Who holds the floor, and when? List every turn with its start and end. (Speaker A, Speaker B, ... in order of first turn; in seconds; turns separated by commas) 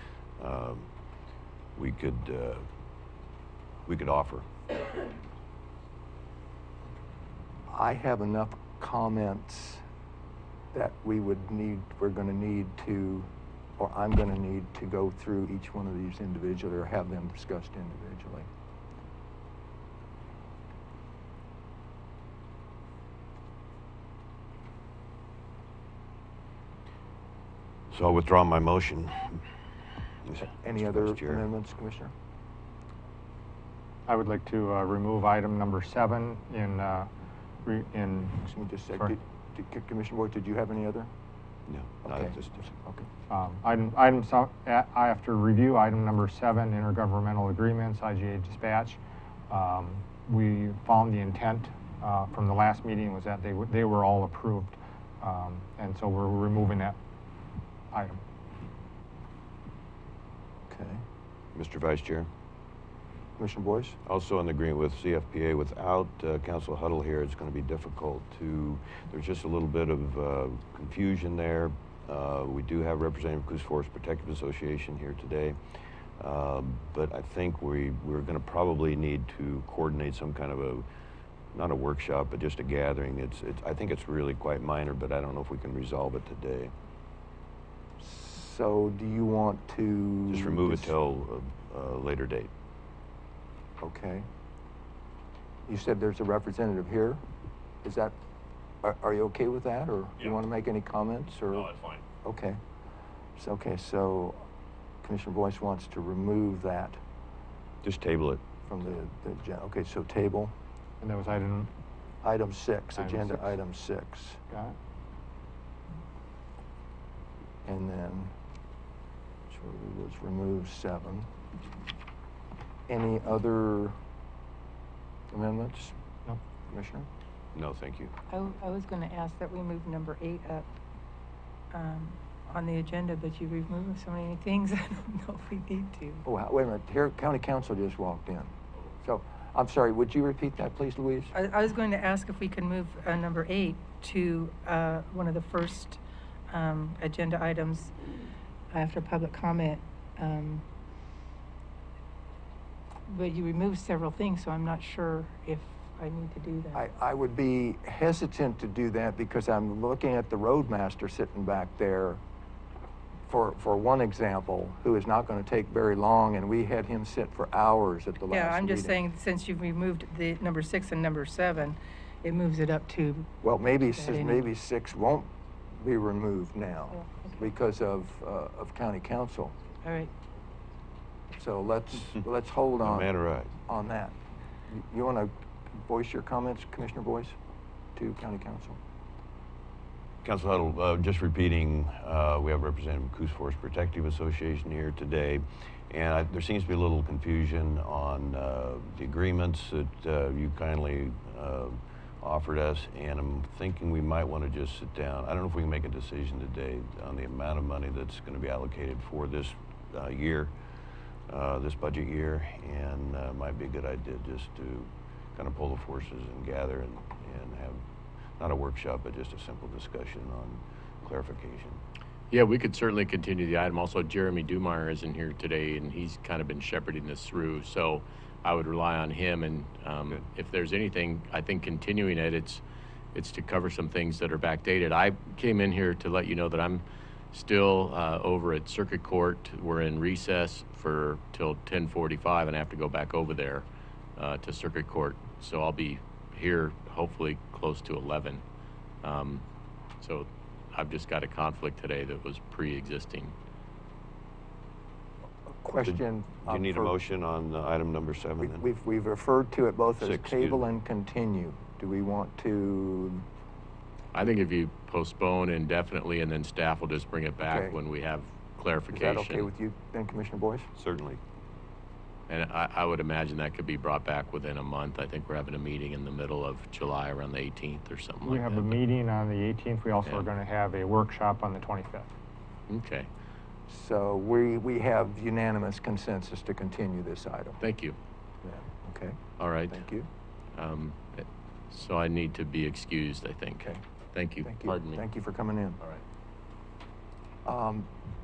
Speaker A: 0.4-0.9, Speaker A: 1.8-2.6, Speaker A: 3.9-4.5, Speaker B: 7.7-9.8, Speaker B: 10.7-18.5, Speaker A: 27.9-29.4, Speaker A: 30.2-31.4, Speaker B: 30.4-32.1, Speaker C: 34.1-37.1, Speaker C: 37.7-38.4, Speaker B: 38.4-41.1, Speaker A: 41.7-42.7, Speaker B: 42.0-43.1, Speaker C: 43.3-49.0, Speaker C: 49.5-57.0, Speaker C: 57.9-58.2, Speaker B: 60.7-61.0, Speaker A: 61.5-62.3, Speaker B: 63.4-64.0, Speaker A: 64.1-75.6, Speaker A: 76.2-80.9, Speaker A: 81.5-86.7, Speaker B: 88.0-91.0, Speaker A: 90.3-92.5, Speaker B: 93.8-94.3, Speaker B: 95.7-97.2, Speaker B: 97.8-98.2, Speaker B: 98.8-102.6, Speaker B: 103.4-104.5, Speaker B: 105.0-107.0, Speaker A: 107.8-108.4, Speaker B: 108.7-110.5, Speaker C: 111.0-111.7, Speaker B: 112.2-114.4, Speaker C: 113.0-113.5, Speaker B: 117.7-118.3, Speaker B: 119.5-121.3, Speaker B: 122.9-124.0, Speaker B: 125.3-126.0, Speaker B: 126.7-127.1, Speaker A: 127.5-128.1, Speaker D: 128.3-130.7, Speaker D: 131.7-136.2, Speaker B: 136.2-138.5, Speaker B: 139.0-141.3, Speaker D: 141.3-147.9, Speaker D: 148.7-150.6, Speaker D: 153.1-156.8, Speaker B: 156.7-162.2, Speaker B: 163.3-169.0, Speaker D: 168.3-173.3, Speaker B: 173.4-179.5, Speaker D: 173.8-174.5, Speaker D: 177.0-177.4, Speaker D: 179.8-180.1, Speaker B: 181.3-183.1, Speaker A: 182.8-183.5, Speaker B: 183.7-184.2, Speaker B: 184.7-187.4, Speaker B: 188.0-188.8, Speaker A: 190.2-210.5, Speaker A: 211.3-217.8, Speaker A: 218.4-221.8, Speaker E: 222.3-232.6, Speaker E: 233.1-248.4, Speaker E: 249.0-249.4, Speaker E: 250.0-253.3, Speaker B: 255.5-256.9, Speaker A: 255.8-258.6, Speaker B: 258.4-263.2, Speaker A: 260.0-260.7, Speaker E: 264.1-269.5, Speaker B: 267.4-267.8, Speaker B: 268.9-270.7, Speaker A: 270.8-271.2, Speaker E: 272.3-278.8, Speaker C: 278.2-282.1, Speaker E: 282.7-283.1, Speaker B: 283.7-287.6, Speaker E: 287.6-288.0, Speaker B: 288.4-290.1, Speaker E: 289.4-289.8, Speaker E: 290.6-295.0, Speaker B: 294.4-295.8, Speaker B: 297.4-297.9